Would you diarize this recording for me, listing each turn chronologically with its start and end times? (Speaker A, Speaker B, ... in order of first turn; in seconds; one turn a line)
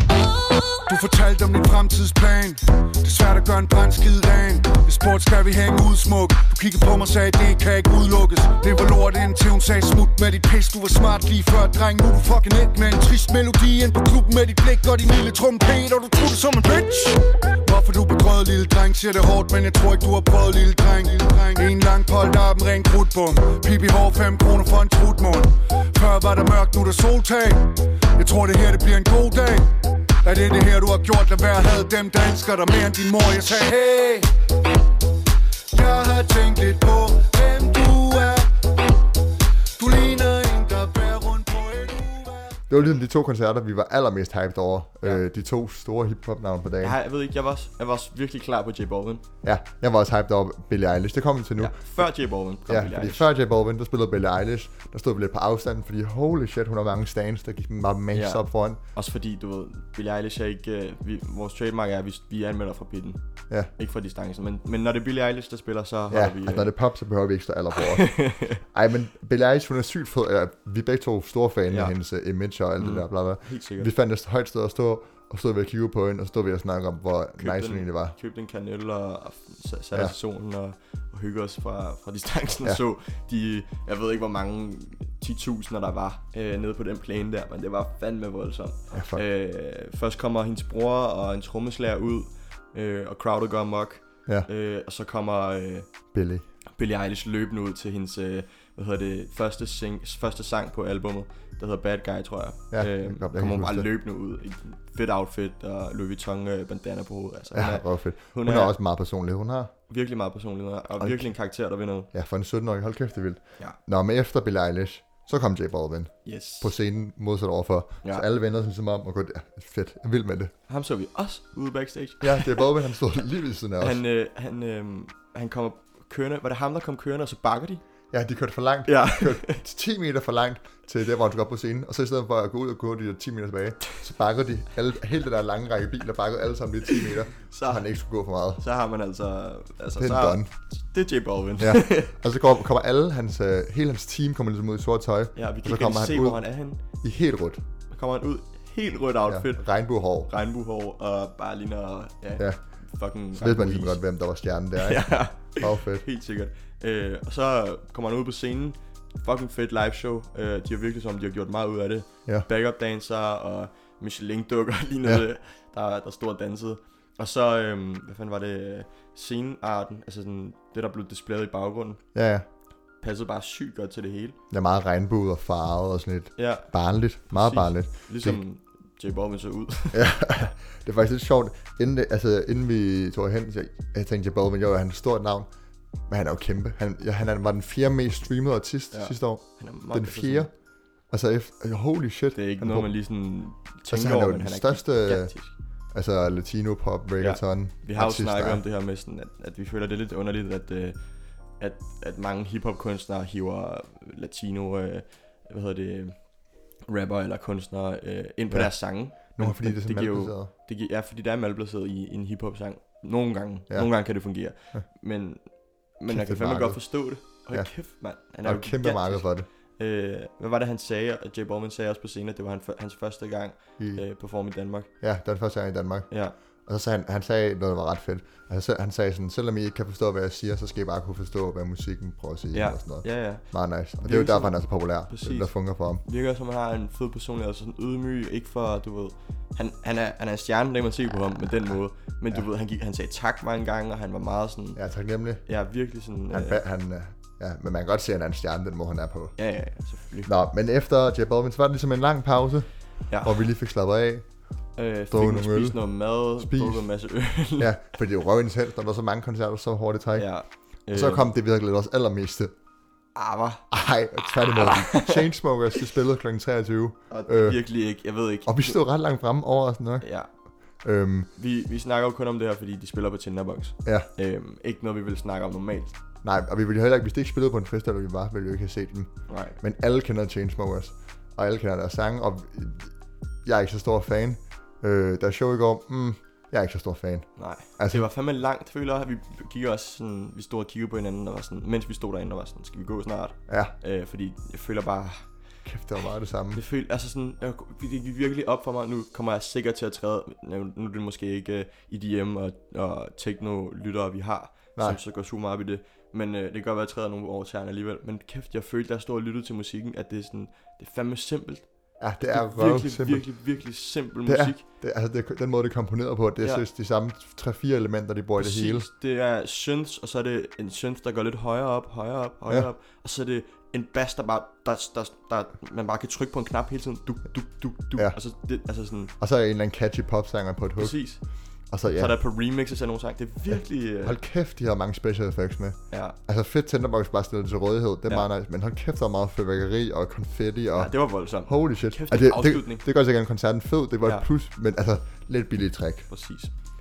Speaker A: 0.9-34.3
Speaker A: 35.7-38.5
Speaker A: 39.8-42.6
Speaker B: 42.7-47.0
Speaker C: 46.8-49.2
Speaker B: 49.4-52.1
Speaker C: 51.6-53.3
Speaker B: 52.7-58.8
Speaker C: 58.1-63.2
Speaker C: 63.7-66.7
Speaker B: 66.1-78.2
Speaker C: 67.8-68.6
Speaker C: 71.7-72.0
Speaker C: 72.8-73.9
Speaker C: 77.4-95.9
Speaker B: 88.9-89.2
Speaker B: 96.1-96.5
Speaker C: 96.8-108.8
Speaker B: 102.7-103.9
Speaker B: 107.5-109.7
Speaker C: 109.9-112.1
Speaker B: 111.0-111.4
Speaker B: 112.1-120.5
Speaker C: 116.2-116.7
Speaker C: 120.7-122.8
Speaker B: 122.2-124.0
Speaker C: 123.8-127.8
Speaker B: 128.1-138.6
Speaker C: 128.9-129.6
Speaker C: 137.5-137.9
Speaker C: 138.6-142.2
Speaker B: 140.0-140.5
Speaker B: 141.6-147.6
Speaker C: 145.4-146.8
Speaker C: 147.9-149.7
Speaker B: 149.3-150.3
Speaker C: 150.2-154.0
Speaker B: 153.3-156.1
Speaker C: 154.8-172.0
Speaker B: 172.1-172.5
Speaker C: 173.0-174.4
Speaker B: 174.5-178.4
Speaker C: 176.4-180.1
Speaker B: 179.9-185.5
Speaker B: 186.1-190.5
Speaker C: 188.9-190.5
Speaker B: 191.1-193.0
Speaker C: 192.3-195.5
Speaker B: 193.9-195.3
Speaker B: 195.9-198.6
Speaker C: 197.2-206.2
Speaker C: 206.9-224.9
Speaker B: 208.5-210.5
Speaker B: 213.7-214.9
Speaker B: 216.1-219.5
Speaker B: 223.8-224.1
Speaker B: 225.0-236.0
Speaker C: 226.1-226.4
Speaker C: 232.5-244.8
Speaker B: 244.8-245.4
Speaker C: 245.4-246.6
Speaker B: 246.3-249.4
Speaker C: 249.4-250.3
Speaker B: 250.2-254.3
Speaker C: 253.1-253.4
Speaker C: 254.8-257.8
Speaker B: 255.1-257.0
Speaker B: 257.6-260.4
Speaker C: 260.2-261.3
Speaker B: 260.9-262.5
Speaker C: 263.1-263.7
Speaker B: 263.7-267.8
Speaker C: 264.6-265.3
Speaker C: 267.1-268.8
Speaker B: 268.4-270.1
Speaker C: 270.0-270.3
Speaker B: 270.8-271.3
Speaker C: 271.4-276.0
Speaker B: 276.2-282.9
Speaker C: 279.3-279.6
Speaker B: 283.4-288.1
Speaker C: 287.4-295.3
Speaker B: 293.5-293.7
Speaker B: 295.6-296.6
Speaker C: 296.5-314.6
Speaker B: 312.0-313.5
Speaker B: 314.3-318.9
Speaker C: 316.4-316.7
Speaker C: 318.4-329.1
Speaker B: 327.9-328.2
Speaker B: 329.2-331.2
Speaker C: 330.8-331.2
Speaker B: 331.7-332.1
Speaker C: 331.8-334.2
Speaker B: 333.5-346.1
Speaker C: 335.9-336.2
Speaker C: 340.8-342.9
Speaker C: 344.0-344.3
Speaker C: 346.1-346.5